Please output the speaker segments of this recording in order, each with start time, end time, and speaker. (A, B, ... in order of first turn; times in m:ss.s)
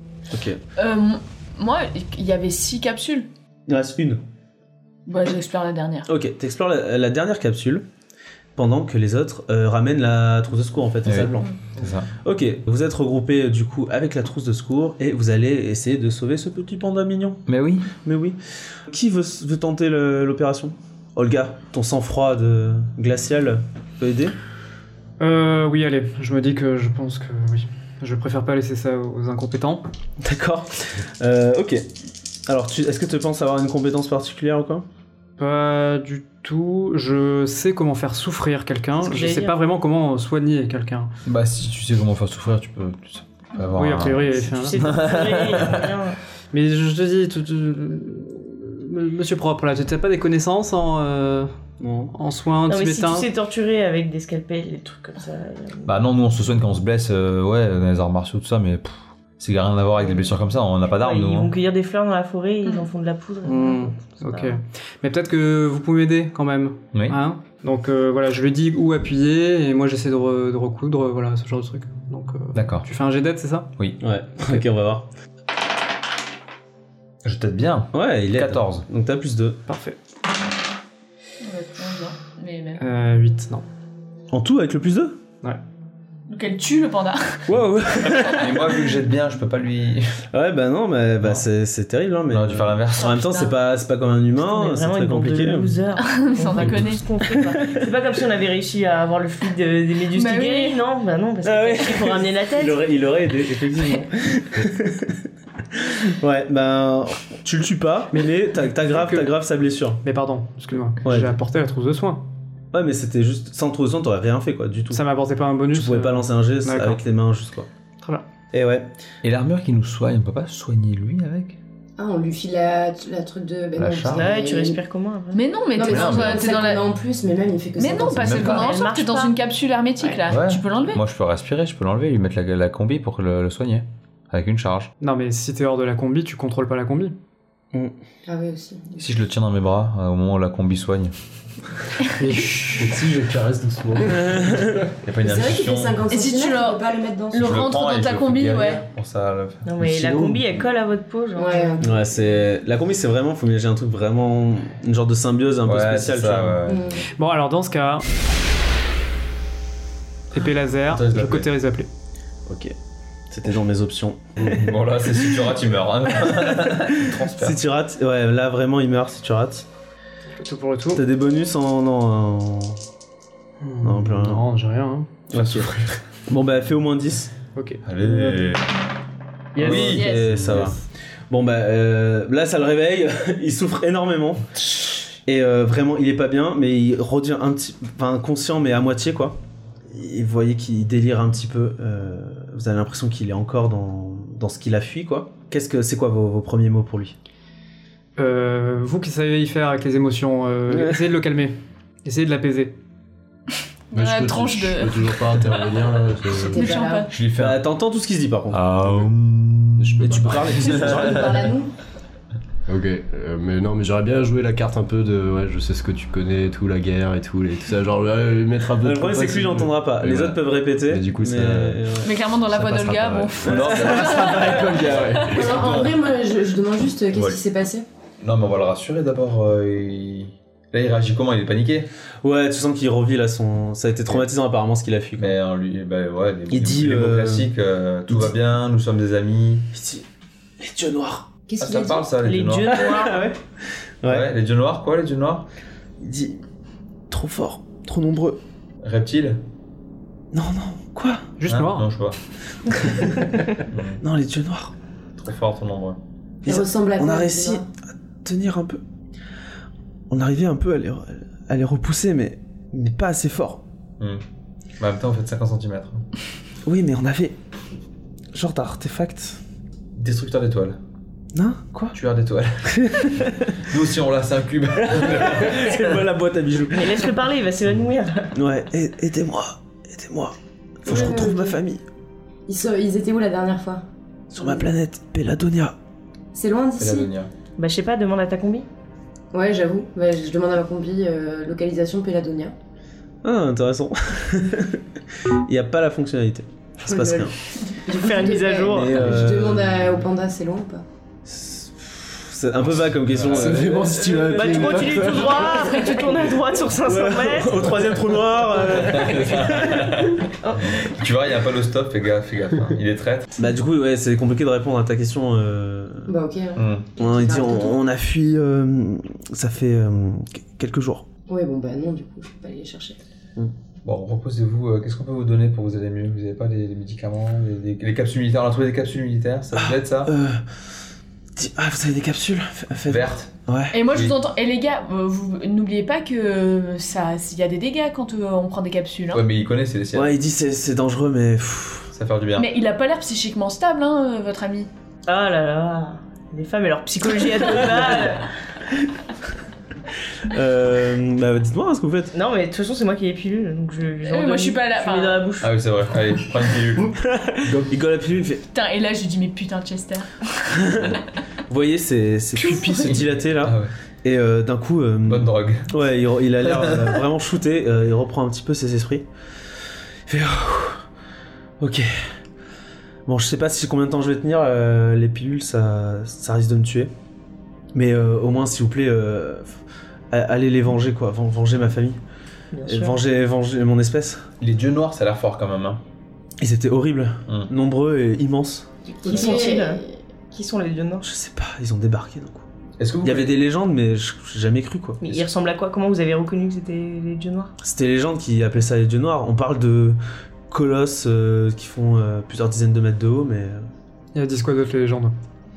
0:00.3-0:00.6 A
0:00.8-0:03.3 B
0:03.7-0:04.2 A
0:05.1-0:06.1 B
0:06.1-0:07.8 A
0:08.6-0:11.5 A
0:11.0-0:12.1 C
0:12.2-0:17.4 A
0:17.5-0:17.9 C
0:18.0-0:24.3 A
0:25.2-0:29.8 D
0:30.2-0:31.8 A
0:32.5-0:34.8 A
0:35.4-0:41.1 D
0:39.0-0:39.6 E
0:41.2-0:45.9 C
0:43.8-0:44.8 D
0:44.3-0:46.2 E
0:46.5-0:51.5 D
0:51.8-0:52.1 A
0:52.1-0:53.3 D
0:52.7-0:55.9 E
0:55.8-1:01.5 C
1:01.0-1:04.6 E
1:03.4-1:13.7 D
1:06.9-1:07.2 C
1:12.5-1:12.9 C
1:14.0-1:15.1 A
1:17.2-1:18.8 C
1:17.9-1:19.6 A
1:19.7-1:20.0 D
1:21.4-1:22.8 B
1:22.8-1:23.6 D
1:24.3-1:25.2 A
1:26.3-1:27.5 B
1:27.5-1:28.9 A
1:28.2-1:30.2 C
1:30.3-1:35.8 A
1:32.3-1:33.3 C
1:33.0-1:33.5 B
1:34.4-1:42.8 E
1:36.0-1:37.6 B
1:37.6-1:37.9 A
1:40.1-1:40.8 B
1:41.4-1:50.0 A
1:48.1-1:49.3 D
1:50.0-1:52.2 D
1:51.0-1:51.3 A
1:52.7-1:55.0 A
1:54.9-1:57.0 D
1:55.7-1:57.7 A
1:58.5-1:58.9 A
1:59.2-2:01.6 C
2:02.0-2:04.8 F
2:03.8-2:04.3 C
2:04.1-2:05.4 E
2:05.3-2:06.8 B
2:05.8-2:08.4 F
2:05.8-2:06.5 C
2:07.8-2:11.0 B
2:08.2-2:08.7 C
2:08.3-2:09.4 E
2:10.0-2:10.3 E
2:10.3-2:14.9 C
2:15.0-2:17.2 D
2:18.3-2:19.0 F
2:19.0-2:21.1 C
2:22.2-2:23.0 D
2:22.3-2:24.9 G
2:24.1-2:24.8 A
2:25.0-2:26.0 C
2:25.2-2:27.7 F
2:26.1-2:28.8 B
2:27.4-2:29.7 C
2:29.6-2:31.8 E
2:29.8-2:30.6 G
2:31.4-2:32.4 F
2:31.8-2:36.6 A
2:35.6-2:37.0 C
2:36.7-2:37.0 F
2:37.2-2:38.1 D
2:40.3-2:41.9 D
2:40.9-2:41.5 C
2:42.5-2:42.7 A
2:43.3-2:45.6 A
2:44.4-2:47.6 C
2:46.2-2:49.7 A
2:50.4-2:51.0 D
2:50.9-2:52.8 A
2:53.6-2:55.2 D
2:53.8-2:54.5 A
2:55.3-2:57.3 A
2:55.3-2:55.9 C
2:57.6-2:58.4 D
2:57.8-2:58.7 C
2:59.6-3:00.7 D
2:59.6-3:00.1 C
2:59.6-3:00.8 A
2:59.8-3:00.4 B
3:01.3-3:09.4 A
3:09.9-3:17.2 A
3:18.2-3:22.8 D
3:20.7-3:21.0 A
3:23.9-3:25.6 B
3:23.9-3:26.7 G
3:26.5-3:27.1 B
3:26.5-3:27.1 F
3:27.1-3:27.6 C
3:27.4-3:28.6 A
3:28.5-3:31.3 C
3:29.8-3:30.5 G
3:30.0-3:31.6 A
3:30.5-3:31.8 F
3:32.7-3:45.4 G
3:38.8-3:42.1 A
3:42.0-3:45.1 B
3:43.4-3:45.1 A
3:43.4-3:46.1 C
3:45.3-3:47.9 F
3:47.1-3:47.4 C
3:48.2-3:51.9 C
3:52.2-3:55.4 A
3:55.2-3:59.7 C
3:56.5-3:57.5 A
3:59.7-4:00.0 A
4:00.6-4:01.3 A
4:01.5-4:02.1 F
4:01.6-4:02.7 C
4:02.2-4:03.4 E
4:02.7-4:03.4 A
4:04.0-4:04.3 A
4:04.0-4:05.5 C
4:06.0-4:06.4 A
4:07.1-4:08.4 A
4:08.8-4:09.4 C
4:10.3-4:11.3 A
4:11.4-4:11.9 D
4:11.5-4:12.2 C
4:12.7-4:13.5 A
4:13.7-4:14.0 C
4:14.0-4:14.7 A
4:15.2-4:16.0 C
4:16.4-4:17.7 A
4:16.4-4:17.6 F
4:18.2-4:18.8 A
4:20.1-4:23.6 A
4:24.8-4:26.0 C
4:26.6-4:27.4 A
4:28.3-4:29.4 A
4:29.9-4:30.8 C
4:31.3-4:32.0 A
4:31.9-4:35.6 C
4:32.7-4:33.6 A
4:34.8-4:37.1 A
4:36.7-4:38.3 E
4:38.3-4:41.8 A
4:40.8-4:41.6 F
4:42.5-4:43.8 F
4:44.3-4:45.7 A
4:44.4-4:44.7 F
4:46.3-4:47.1 F
4:46.8-4:47.3 C
4:47.6-4:48.7 E
4:49.3-4:52.6 F
4:53.2-4:54.8 A
4:55.3-4:57.3 A
4:56.8-5:00.8 F
4:57.9-4:59.0 E
4:58.7-4:59.8 A
5:01.2-5:10.0 A
5:03.1-5:03.7 C
5:03.2-5:05.4 G
5:04.2-5:09.4 E
5:05.5-5:06.3 B
5:08.6-5:13.3 C
5:10.4-5:10.9 E
5:13.4-5:16.1 A
5:16.1-5:17.8 F
5:16.6-5:16.9 C
5:17.0-5:21.1 A
5:21.3-5:23.0 F
5:23.8-5:30.1 C
5:29.6-5:30.6 A
5:31.4-5:33.8 A
5:32.9-5:33.3 C
5:33.7-5:39.2 B
5:39.1-5:40.2 C
5:40.0-5:41.9 A
5:41.9-5:42.5 C
5:42.4-5:44.7 B
5:45.1-5:48.3 E
5:47.5-5:48.1 A
5:50.2-5:52.1 A
5:52.1-5:55.6 E
5:54.1-5:55.2 B
5:55.4-5:56.9 C
5:56.9-5:58.4 A
5:58.5-6:00.8 B
6:00.5-6:09.1 A
6:02.8-6:03.7 C
6:05.1-6:05.7 C
6:06.4-6:07.0 C
6:10.1-6:10.8 A
6:11.6-6:12.1 A
6:13.1-6:16.9 A
6:17.7-6:19.6 A
6:20.1-6:22.0 A
6:22.5-6:23.0 E
6:22.6-6:24.3 A
6:24.4-6:25.8 C
6:26.4-6:28.7 A
6:29.0-6:29.9 F
6:29.0-6:31.1 E
6:31.0-6:32.5 A
6:32.8-6:33.3 C
6:33.0-6:35.0 A
6:35.0-6:37.5 E
6:37.6-6:40.0 A
6:40.5-6:43.7 A
6:44.2-6:45.2 D